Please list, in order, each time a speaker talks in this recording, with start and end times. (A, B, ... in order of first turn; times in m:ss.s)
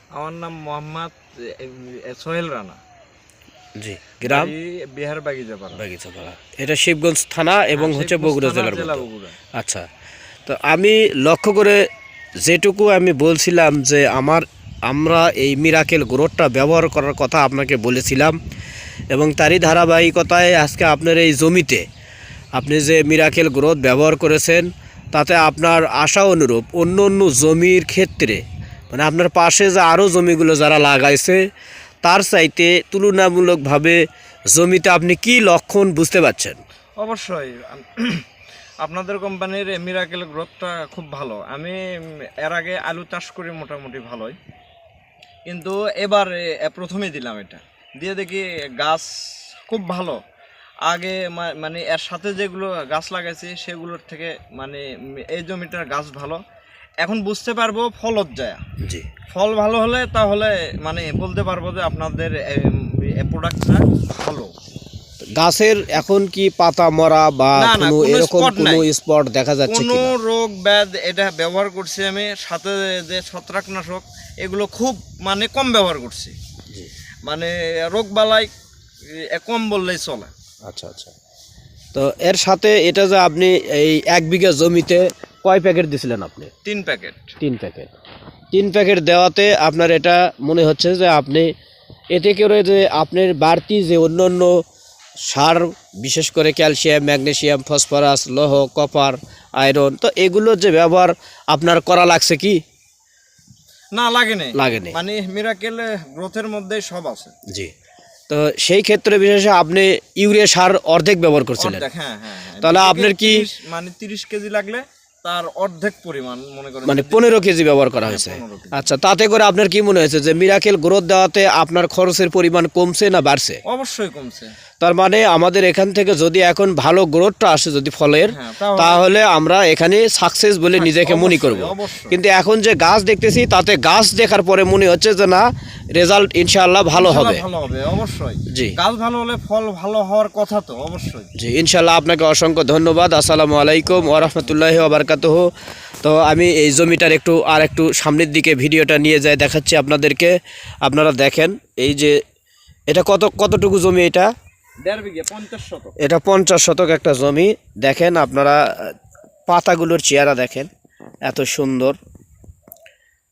0:00.1-0:02.8 A
0:03.8-0:04.5 B
0:04.2-0:05.8 A
0:05.8-0:09.0 B
0:07.8-0:09.4 A
0:09.6-0:09.8 B
0:10.4-0:11.8 B
0:12.4-0:18.4 B
0:19.1-0:21.8 B
0:22.6-0:31.4 B
0:32.0-0:34.0 B
0:34.5-0:36.6 B
0:37.0-0:38.2 A
0:38.8-0:44.4 A
0:45.5-0:49.1 A
0:49.6-0:50.2 A
0:50.9-0:56.4 A
0:57.0-0:58.6 A
0:58.8-0:59.1 B
0:59.3-1:04.5 A
1:05.3-1:10.1 B
1:07.6-1:08.9 A
1:09.7-1:16.3 A
1:17.2-1:18.5 A
1:19.2-1:20.3 A
1:20.7-1:21.1 B
1:21.9-1:26.5 B
1:26.6-1:27.4 A
1:27.4-1:27.9 B
1:28.5-1:31.5 B
1:32.1-1:34.5 B
1:35.2-1:42.6 B
1:43.9-1:47.3 A
1:44.5-1:45.0 B
1:48.3-1:51.8 B
1:51.6-1:57.2 A
1:52.6-1:53.4 B
1:56.8-2:03.6 B
1:58.0-1:58.9 A
2:03.6-2:04.5 A
2:04.8-2:17.4 B
2:08.3-2:09.2 A
2:10.7-2:12.2 A
2:17.0-2:21.3 A
2:18.5-2:18.7 B
2:21.4-2:25.5 B
2:26.0-2:32.2 B
2:32.9-2:34.3 B
2:34.8-2:35.9 A
2:36.0-2:38.9 B
2:39.5-2:40.7 B
2:41.2-2:42.0 B